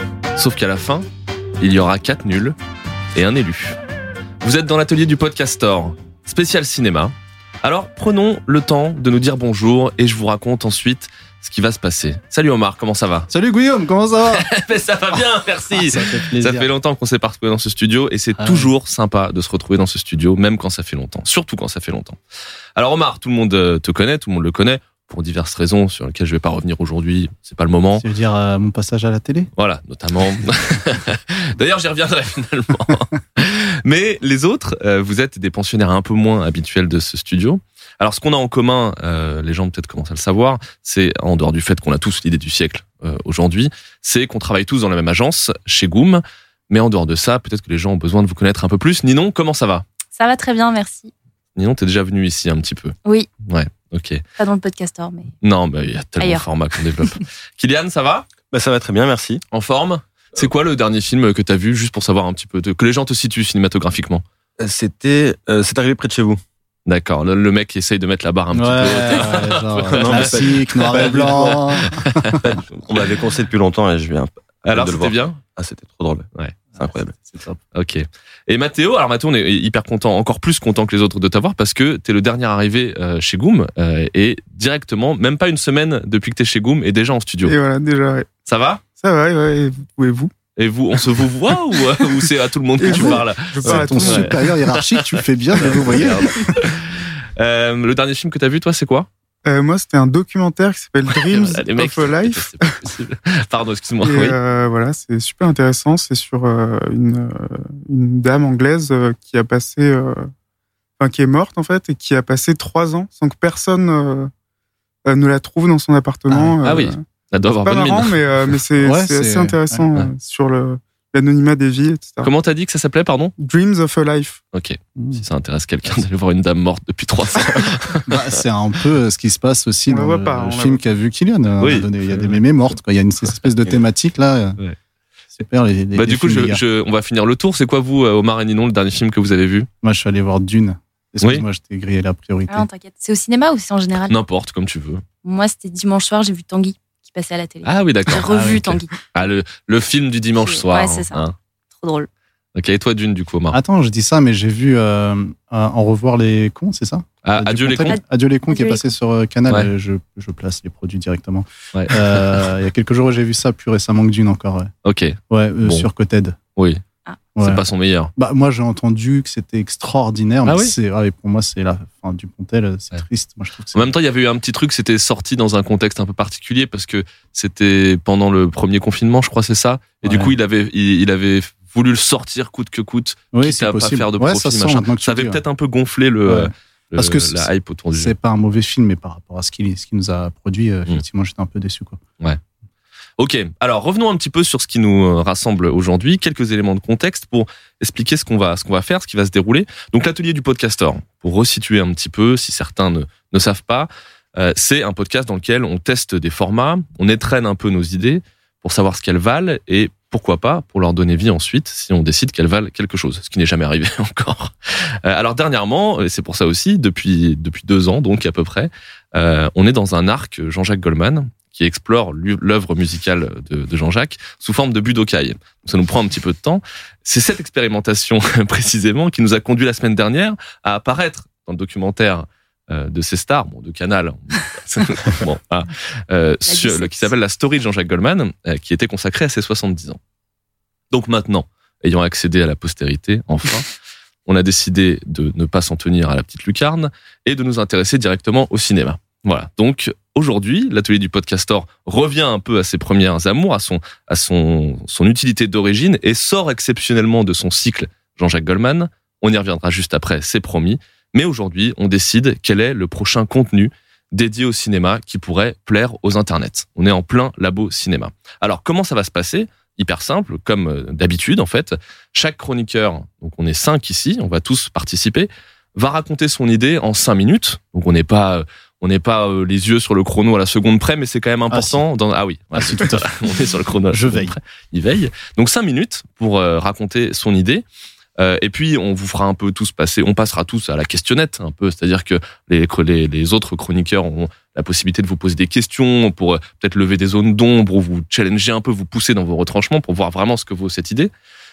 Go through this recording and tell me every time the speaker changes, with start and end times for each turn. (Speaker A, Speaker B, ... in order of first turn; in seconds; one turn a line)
Speaker A: 0.4-1.1
Speaker A: 1.6-2.6
Speaker A: 3.1-3.8
Speaker A: 4.4-13.3
Speaker B: 13.3-14.5
Speaker A: 14.3-22.2
Speaker B: 15.7-16.7
Speaker B: 18.4-18.7
Speaker A: 22.8-28.1
Speaker B: 27.9-29.5
Speaker A: 29.6-49.8
Speaker C: 50.1-51.1
Speaker A: 51.5-54.2
Speaker C: 54.4-55.3
Speaker A: 55.4-58.3
Speaker C: 56.2-56.5
Speaker D: 58.5-59.4
Speaker A: 59.5-64.2
Speaker D: 64.6-66.4
Speaker A: 66.9-72.3
Speaker B: 68.5-72.5
Speaker D: 69.9-71.8
Speaker D: 72.4-76.3
Speaker A: 74.7-75.4
Speaker B: 76.8-77.6
Speaker D: 76.8-77.1
Speaker A: 77.7-87.5
Speaker E: 87.5-88.3
Speaker A: 88.5-88.8
Speaker E: 89.0-90.3
Speaker A: 90.6-99.1
Speaker E: 92.8-94.5
Speaker B: 92.9-96.6
Speaker E: 99.5-102.8
Speaker A: 101.1-104.4
Speaker E: 104.0-110.3
Speaker E: 111.0-114.3
Speaker E: 115.0-117.0
Speaker B: 116.3-116.5
Speaker A: 116.6-118.2
Speaker E: 117.6-122.3
Speaker B: 118.8-119.9
Speaker A: 122.2-123.3
Speaker E: 123.4-124.4
Speaker A: 124.5-128.3
Speaker B: 125.0-125.2
Speaker B: 128.1-134.6
Speaker E: 129.9-130.8
Speaker A: 131.6-132.4
Speaker B: 135.3-136.6
Speaker A: 135.9-139.7
Speaker B: 139.8-142.7
Speaker C: 142.5-144.2
Speaker A: 144.1-145.0
Speaker C: 145.2-149.0
Speaker A: 147.7-151.3
Speaker B: 148.2-148.6
Speaker C: 150.4-151.2
Speaker C: 151.8-152.1
Speaker A: 152.6-153.6
Speaker B: 153.5-164.7
Speaker A: 157.2-158.0
Speaker C: 157.9-158.8
Speaker A: 161.7-162.4
Speaker A: 164.8-165.9
Speaker B: 165.3-166.4
Speaker A: 166.6-166.8
Speaker B: 167.3-167.6
Speaker A: 167.4-168.1
Speaker B: 168.2-173.9
Speaker A: 170.5-170.7
Speaker A: 173.7-188.1
Speaker B: 180.0-180.3
Speaker B: 183.3-185.4
Speaker B: 186.2-192.0
Speaker A: 193.2-214.5
Speaker A: 215.0-240.0
Speaker C: 236.5-237.2
Speaker A: 240.9-243.7
Speaker A: 244.3-287.6
Speaker B: 281.5-281.8
Speaker B: 282.5-283.2
Speaker B: 283.9-284.4
Speaker A: 288.2-301.1